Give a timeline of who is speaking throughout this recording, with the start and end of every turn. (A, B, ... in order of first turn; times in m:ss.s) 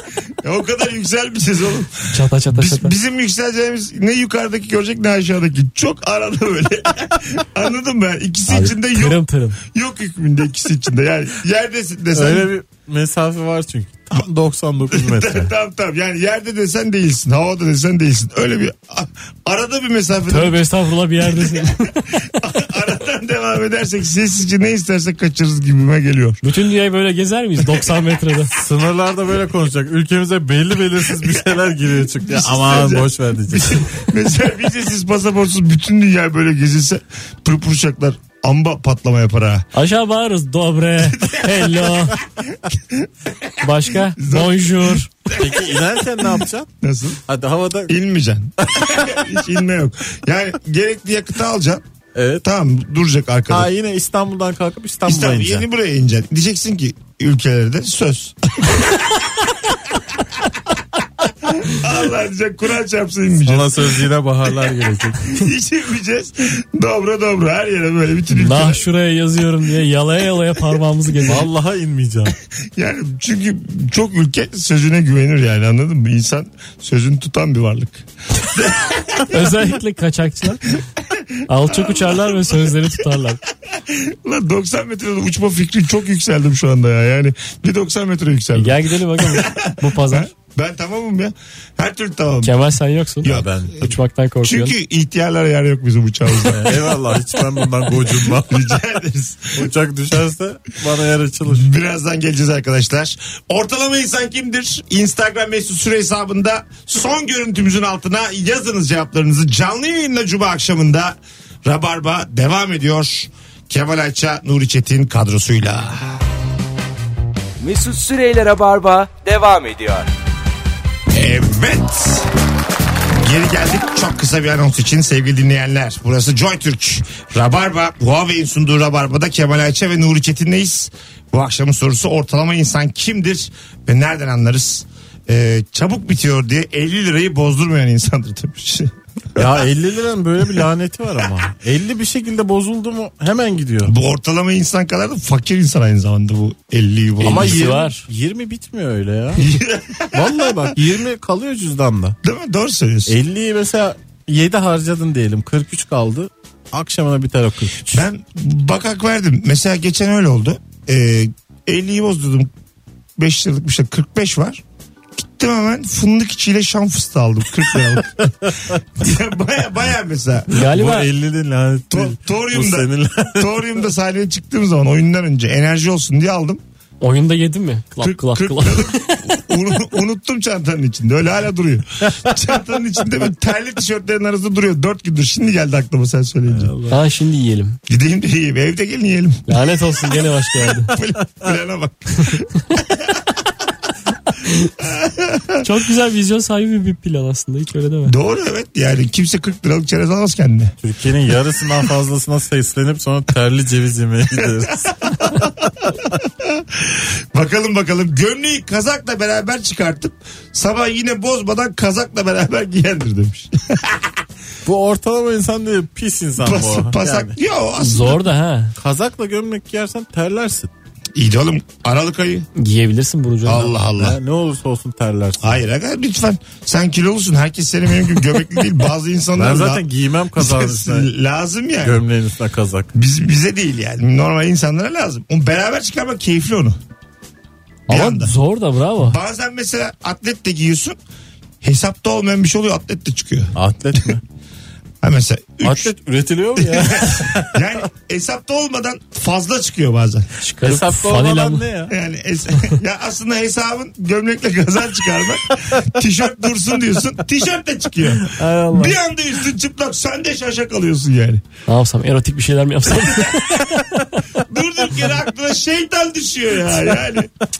0:00.4-0:12.5 A
0:02.1-0:02.9 B
0:08.5-0:09.6 B
0:12.1-0:15.5 C
0:14.9-0:20.6 A
0:20.3-0:22.3 B
0:21.3-0:26.4 A
0:26.4-0:28.5 B
0:28.5-0:34.0 C
0:31.2-0:31.5 A
0:32.2-0:39.7 A
0:39.7-0:42.2 B
0:41.0-0:46.2 A
0:43.6-0:45.3 B
0:45.3-0:46.7 C
0:46.8-0:47.2 A
0:47.3-0:48.0 C
0:47.9-0:51.8 A
0:48.6-0:49.3 C
0:52.1-0:52.4 C
0:52.4-0:53.7 A
0:53.5-0:55.6 C
0:55.0-0:59.0 A
1:01.4-1:04.0 A
1:03.4-1:05.3 C
1:05.2-1:08.8 A
1:08.3-1:11.5 B
1:11.2-1:12.3 C
1:12.8-1:19.7 A
1:19.3-1:20.8 B
1:21.0-1:23.0 A
1:21.4-1:23.4 B
1:23.6-1:32.5 A
1:28.5-1:30.3 B
1:32.4-1:34.7 B
1:33.2-1:33.6 A
1:33.2-1:33.8 C
1:34.4-1:37.0 A
1:36.4-1:38.8 C
1:37.9-1:39.7 A
1:39.5-1:41.7 C
1:41.4-1:56.2 A
1:57.6-2:00.1 D
2:01.1-2:02.3 A
2:03.2-2:19.6 A
2:19.4-2:23.9 C
2:23.8-2:27.6 A
2:27.2-2:28.0 B
2:27.2-2:29.5 C
2:29.4-2:30.8 A
2:30.1-2:32.2 C
2:32.2-2:33.2 A
2:33.1-2:38.0 C
2:37.9-2:42.5 A
2:43.2-2:44.6 A
2:45.2-2:50.5 A
2:50.5-2:51.1 B
2:50.5-2:53.7 C
2:51.9-2:56.6 A
2:57.0-2:59.4 B
2:58.0-3:06.7 A
3:06.5-3:07.0 C
3:06.9-3:07.8 B
3:07.9-3:10.1 A
3:09.5-3:10.9 B
3:10.9-3:13.3 A
3:10.9-3:11.5 C
3:14.6-3:15.6 A
3:15.6-3:18.1 B
3:18.0-3:20.7 A
3:20.8-3:25.3 C
3:24.4-3:34.2 A
3:34.6-3:37.4 C
3:36.4-3:38.2 A
3:37.8-3:38.7 B
3:38.8-3:40.7 C
3:41.1-3:42.5 A
3:42.6-3:43.7 B
3:43.4-3:44.2 A
3:43.9-3:45.6 C
3:45.4-3:49.8 A
3:49.4-3:51.1 C
3:50.4-3:52.0 A
3:51.8-3:52.9 C
3:52.9-3:56.8 A
3:57.9-3:58.3 A
3:57.9-3:59.2 B
3:59.1-4:01.0 A
4:01.6-4:04.1 A
4:03.5-4:04.2 C
4:05.0-4:05.9 A
4:05.6-4:07.8 C
4:06.6-4:10.3 A
4:10.4-4:11.6 B
4:10.6-4:12.0 C
4:11.9-4:21.4 A
4:18.1-4:19.0 C
4:21.7-4:24.0 B
4:23.6-4:23.8 C
4:24.4-4:27.3 A